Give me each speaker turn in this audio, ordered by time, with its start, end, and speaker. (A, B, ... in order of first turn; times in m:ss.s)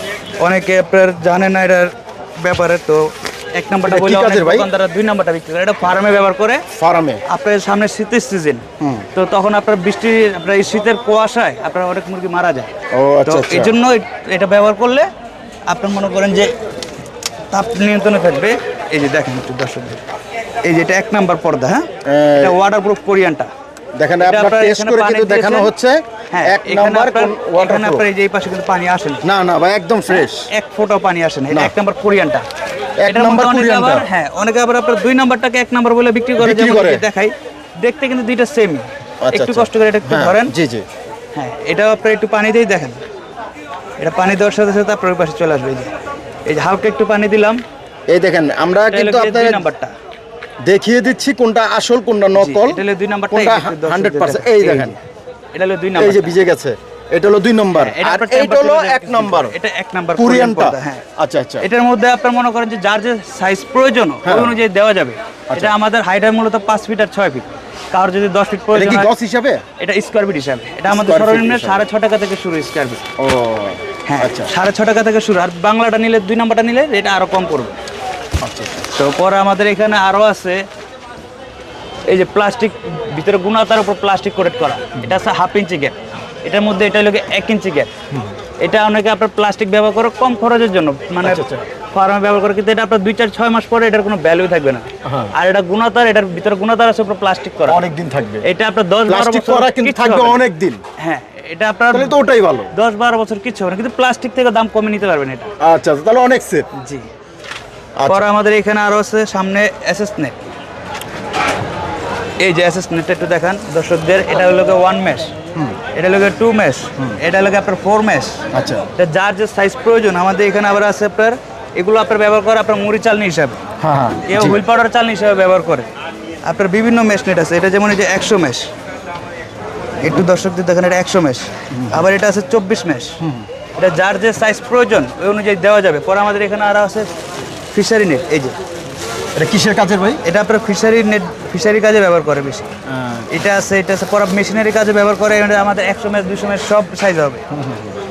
0:00.4-0:06.6 A
0:03.8-0:04.7 B
0:06.7-0:07.2 B
0:07.3-0:12.7 A
0:08.8-0:09.1 B
0:12.9-0:13.7 B
0:13.2-0:15.1 A
0:15.7-0:16.5 A
0:17.5-0:20.0 A
0:20.6-0:23.5 A
0:22.0-0:22.6 B
0:24.0-0:28.0 B
0:24.2-0:25.7 A
0:26.3-0:29.2 A
0:29.2-0:30.5 B
0:30.1-0:32.4 A
0:33.0-0:34.1 B
0:33.1-0:40.5 A
0:36.4-0:37.1 B
0:39.2-0:40.8 B
0:41.4-0:43.0 A
0:44.0-0:45.9 A
0:46.5-0:47.6 A
0:48.1-0:49.6 B
0:48.9-0:49.9 A
0:50.6-0:55.0 B
0:52.4-0:55.0 A
0:55.5-0:56.4 A
0:56.0-0:59.6 B
0:57.8-1:01.0 A
1:00.2-1:01.7 B
1:01.6-1:09.1 A
1:04.2-1:04.6 B
1:08.7-1:09.6 B
1:09.8-1:13.0 A
1:10.9-1:11.9 B
1:13.2-1:14.5 B
1:14.1-1:17.8 A
1:18.4-1:18.8 B
1:18.9-1:20.6 A
1:22.1-1:27.9 A
1:28.6-1:37.9 A
1:31.2-1:31.7 B
1:35.0-1:35.3 B
1:37.7-1:38.4 B
1:38.4-1:40.4 A
1:39.1-1:40.8 B
1:41.0-1:42.2 A
1:41.9-1:42.7 B
1:42.7-1:45.5 A
1:45.6-1:46.7 B
1:46.7-1:47.1 A
1:48.1-1:50.4 A
1:52.4-1:55.3 A
1:55.9-1:58.4 A
1:58.5-1:58.9 B
1:59.0-2:03.6 A
2:03.8-2:04.6 B
2:04.3-2:05.9 A
2:06.4-2:08.7 A
2:10.0-2:13.2 A
2:11.7-2:12.1 B
2:13.2-2:13.5 B
2:13.8-2:17.1 A
2:17.7-2:18.6 A
2:19.4-2:20.2 B
2:20.2-2:22.7 A
2:22.9-2:23.3 B
2:23.3-2:27.4 A
2:27.5-2:28.0 B